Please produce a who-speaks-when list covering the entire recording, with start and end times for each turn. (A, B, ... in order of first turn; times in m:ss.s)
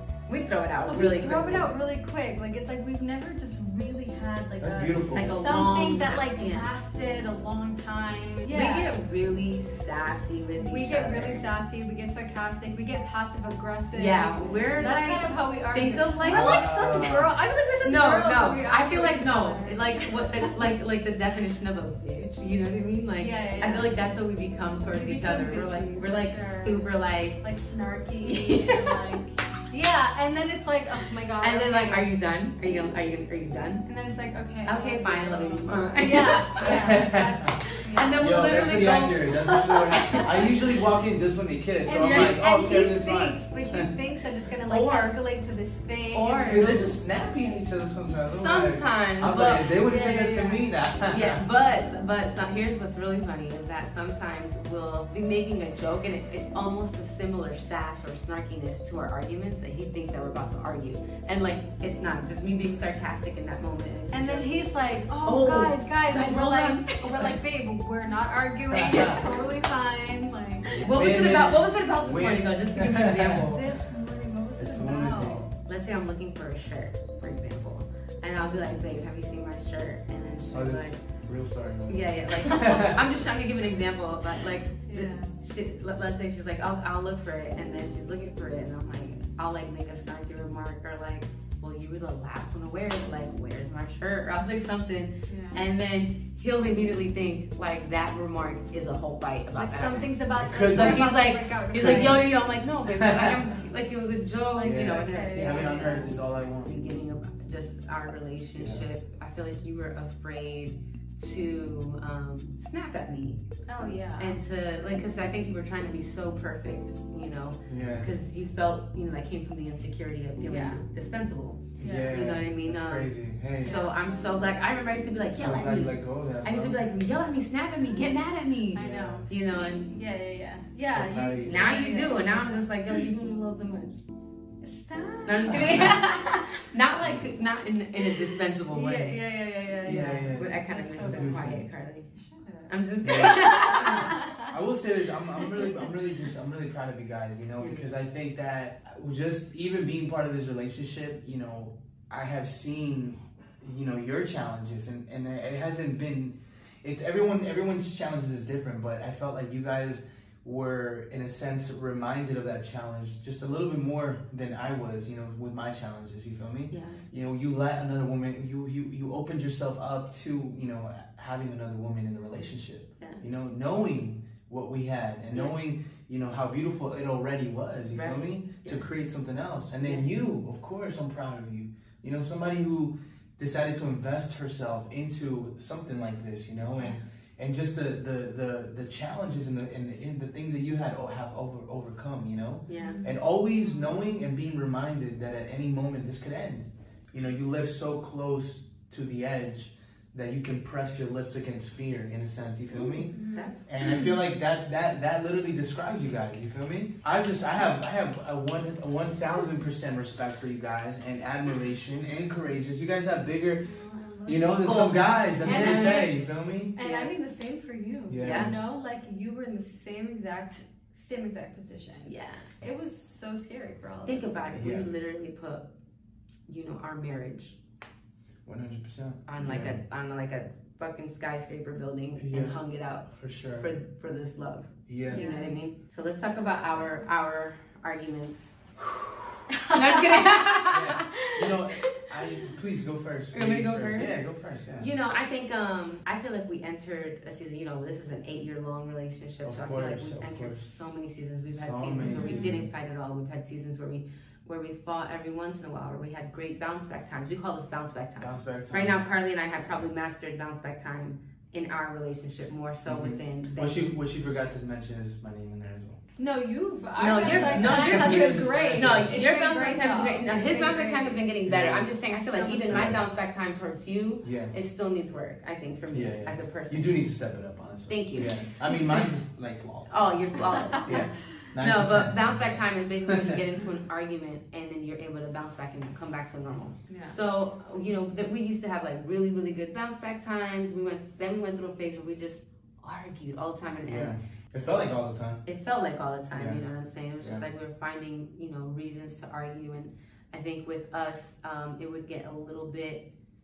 0:00.3-0:01.8 A
0:00.9-0:09.0 B
0:04.6-0:05.4 C
0:05.1-0:06.7 A
0:08.4-0:11.4 A
0:10.6-0:20.6 B
0:13.9-0:17.1 A
0:16.2-0:17.3 C
0:17.8-0:27.4 A
0:23.2-0:24.0 B
0:24.9-0:26.9 B
0:27.4-0:32.1 B
0:28.2-0:29.0 A
0:31.4-0:33.9 A
0:33.9-0:38.4 B
0:34.6-0:37.1 A
0:36.6-0:37.6 C
0:37.6-0:40.5 A
0:38.2-0:43.9 C
0:39.9-0:40.3 B
0:41.8-0:46.9 B
0:44.7-0:45.2 A
0:46.1-0:46.9 A
0:46.5-0:51.4 C
0:48.3-0:49.7 A
0:49.6-0:50.7 B
0:51.1-1:04.5 A
1:04.1-1:10.7 B
1:05.2-1:07.3 A
1:08.7-1:09.2 C
1:10.7-1:13.6 C
1:10.8-1:13.7 A
1:13.5-1:15.5 B
1:14.6-1:15.4 C
1:15.7-1:21.0 A
1:20.5-1:23.0 C
1:21.9-1:53.4 A
1:24.9-1:25.3 B
1:35.3-1:35.6 B
1:39.5-1:42.4 B
1:40.4-1:41.2 C
1:41.7-1:42.3 C
1:42.9-1:43.5 C
1:44.6-1:46.1 B
1:44.6-1:46.7 C
1:48.6-1:48.9 C
1:53.7-1:54.4 B
1:54.2-2:09.9 A
1:57.7-1:58.1 C
2:00.4-2:00.8 B
2:01.8-2:02.3 B
2:01.8-2:03.8 C
2:03.6-2:04.0 B
2:05.3-2:06.9 C
2:08.7-2:12.7 B
2:08.8-2:09.3 C
2:10.9-2:11.6 C
2:11.4-2:14.0 A
2:14.6-2:16.6 B
2:15.3-2:19.2 A
2:15.6-2:15.9 C
2:17.0-2:17.3 C
2:18.7-2:21.6 B
2:19.8-2:21.6 C
2:20.3-2:22.1 A
2:22.2-2:24.5 B
2:22.7-2:24.2 A
2:23.0-3:33.7 C
2:27.6-2:27.9 A
2:46.7-2:47.0 A
2:57.9-2:58.8 A
3:12.7-3:13.0 A
3:12.8-3:13.2 B
3:23.0-3:23.5 B
3:23.3-3:23.7 A
3:33.6-3:36.2 B
3:34.3-3:36.8 C
3:34.6-3:36.1 A
3:36.8-3:44.5 B
3:36.8-3:37.1 A
3:38.1-3:38.6 C
3:38.2-3:38.5 A
3:42.0-3:42.5 A
3:44.1-3:45.7 A
3:44.5-3:44.9 C
3:46.5-3:47.6 A
3:48.4-3:49.8 C
3:49.3-3:58.6 A
3:52.2-3:53.7 C
3:54.9-3:55.2 C
3:55.1-3:55.6 B
3:59.5-4:01.6 B
3:59.6-4:01.1 A
4:00.7-4:04.9 C
4:03.3-4:04.2 A
4:04.8-4:23.9 A
4:09.4-4:10.7 C
4:11.5-4:12.7 C
4:12.0-4:12.5 B
4:18.2-4:19.0 C
4:22.9-4:26.0 C
4:26.2-4:31.3 B
4:27.0-4:37.0 A
4:27.2-4:29.2 C
4:31.5-4:31.9 C
4:32.1-4:33.0 B
4:32.7-4:33.1 C
4:34.2-4:34.5 C
4:35.9-4:43.4 C
4:37.9-4:38.4 A
4:39.9-4:54.2 A
4:46.9-4:47.2 B
4:53.9-4:55.4 C
4:55.4-5:03.1 A
4:56.4-4:56.6 C